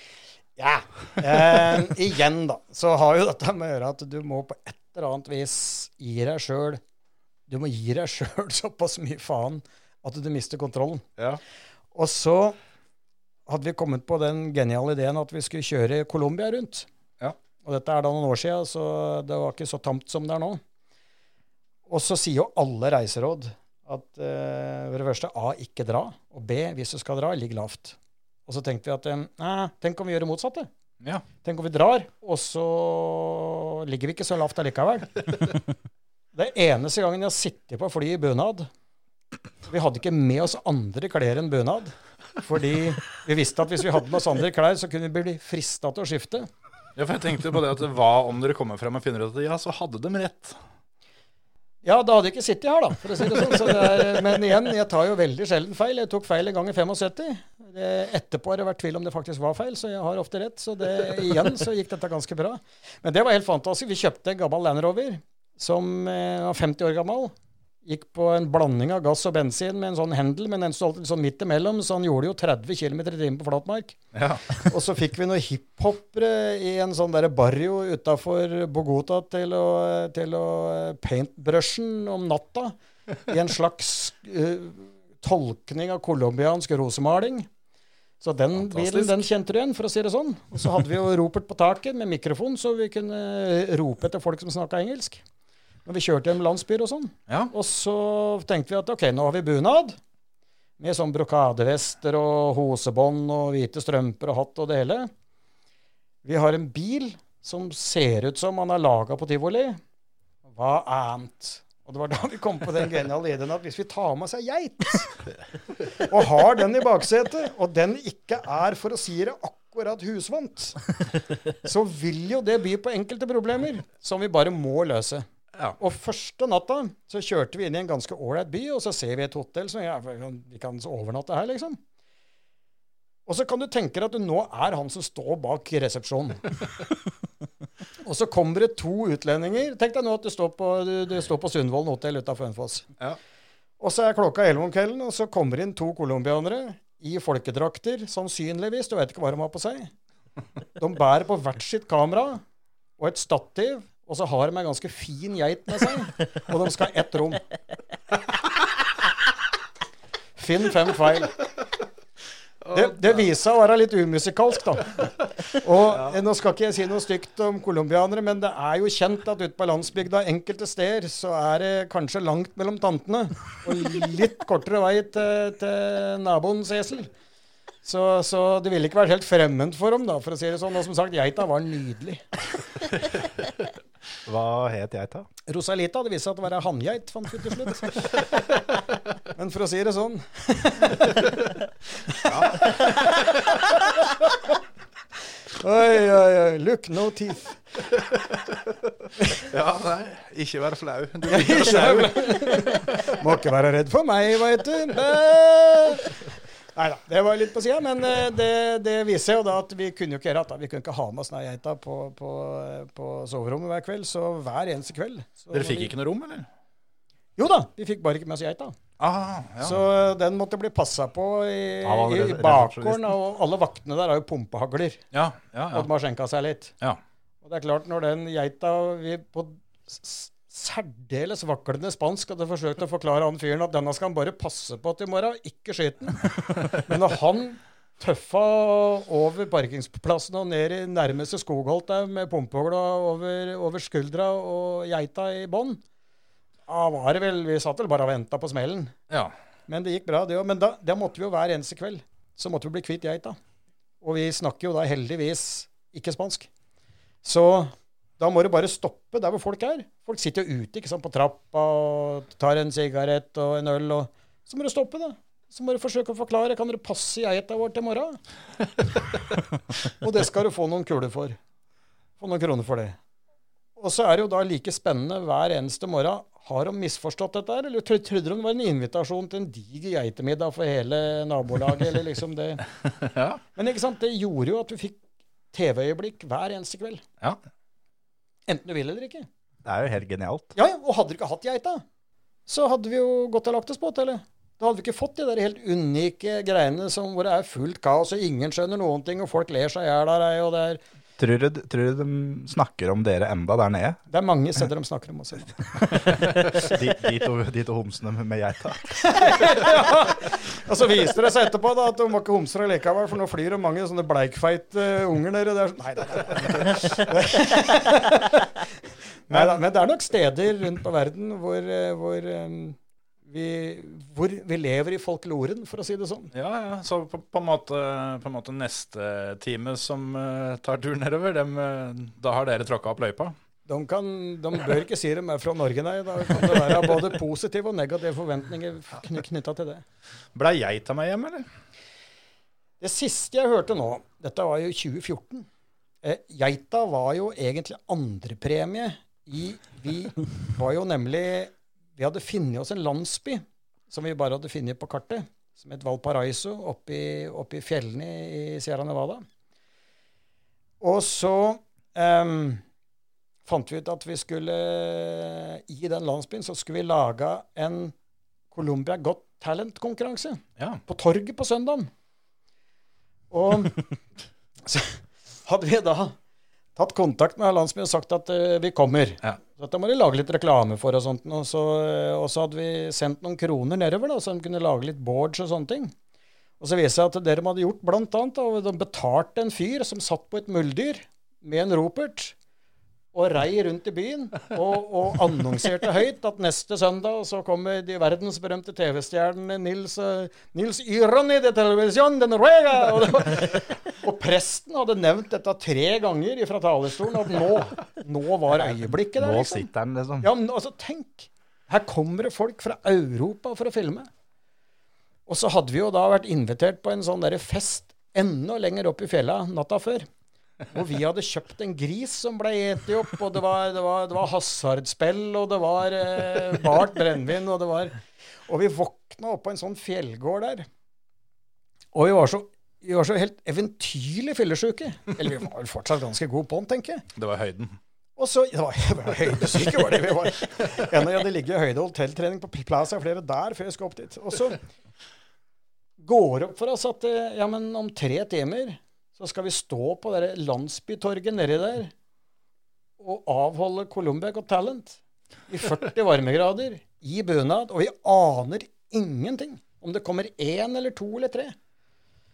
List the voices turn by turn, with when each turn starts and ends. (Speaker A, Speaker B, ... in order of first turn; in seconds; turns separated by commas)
Speaker A: 0.6-6.8, Speaker A: 7.5-11.0, Speaker A: 11.9-12.6, Speaker A: 13.5-16.9, Speaker A: 17.6-20.6, Speaker A: 21.9-30.7, Speaker B: 31.0-31.2, Speaker A: 31.4-35.1, Speaker A: 36.3-38.7, Speaker A: 39.6-46.5, Speaker B: 47.0-50.6, Speaker A: 51.8-74.0, Speaker B: 74.1-74.7, Speaker A: 74.6-82.8, Speaker A: 83.3-87.5, Speaker A: 88.2-95.2, Speaker B: 88.5-89.2, Speaker A: 95.8-100.0, Speaker B: 97.3-97.5, Speaker A: 100.8-105.1, Speaker A: 106.2-109.8, Speaker A: 110.5-115.2, Speaker A: 116.0-120.9, Speaker A: 121.6-125.2, Speaker A: 125.8-131.8, Speaker A: 133.2-136.5, Speaker A: 138.0-142.9, Speaker A: 143.8-149.9, Speaker A: 150.8-152.4, Speaker A: 153.0-157.4, Speaker A: 160.4-161.3, Speaker B: 162.6-163.2, Speaker A: 162.7-177.1, Speaker A: 177.8-182.2, Speaker C: 184.2-185.3, Speaker A: 185.5-188.2, Speaker A: 189.3-191.5, Speaker B: 192.2-193.0, Speaker A: 192.3-193.1, Speaker A: 195.5-197.6, Speaker B: 198.0-198.4, Speaker B: 199.5-202.8, Speaker A: 201.3-215.9, Speaker B: 215.5-216.5, Speaker A: 217.4-218.7, Speaker B: 219.0-219.8, Speaker A: 219.6-225.0, Speaker C: 221.8-223.1, Speaker B: 225.1-225.9, Speaker A: 225.7-226.7, Speaker A: 227.4-245.8, Speaker A: 246.7-248.9, Speaker A: 249.7-253.4, Speaker A: 254.0-256.5, Speaker A: 257.2-268.2, Speaker A: 270.0-271.4, Speaker A: 272.2-273.0, Speaker A: 273.8-282.6, Speaker B: 282.9-283.4, Speaker A: 283.5-285.0, Speaker A: 285.5-287.0, Speaker A: 288.5-289.3, Speaker C: 289.6-290.6, Speaker A: 290.5-291.8, Speaker A: 292.5-300.8, Speaker C: 301.2-304.0, Speaker A: 304.1-305.6, Speaker C: 306.1-309.0, Speaker A: 309.0-318.6, Speaker A: 319.3-326.3, Speaker B: 319.3-319.6, Speaker B: 326.3-333.4, Speaker A: 333.6-339.8, Speaker B: 340.3-341.5, Speaker A: 342.8-345.5, Speaker A: 346.0-359.2, Speaker A: 360.8-362.6, Speaker A: 363.4-367.9, Speaker A: 368.5-371.9, Speaker A: 373.3-373.9, Speaker A: 374.6-376.1, Speaker A: 376.8-385.9, Speaker A: 386.6-392.3, Speaker A: 393.1-409.7, Speaker C: 409.2-410.3, Speaker A: 410.2-414.1, Speaker A: 415.3-420.1, Speaker A: 420.7-430.7, Speaker A: 431.9-437.0, Speaker B: 437.1-437.8, Speaker A: 438.2-444.6, Speaker A: 446.0-451.9, Speaker A: 453.0-461.6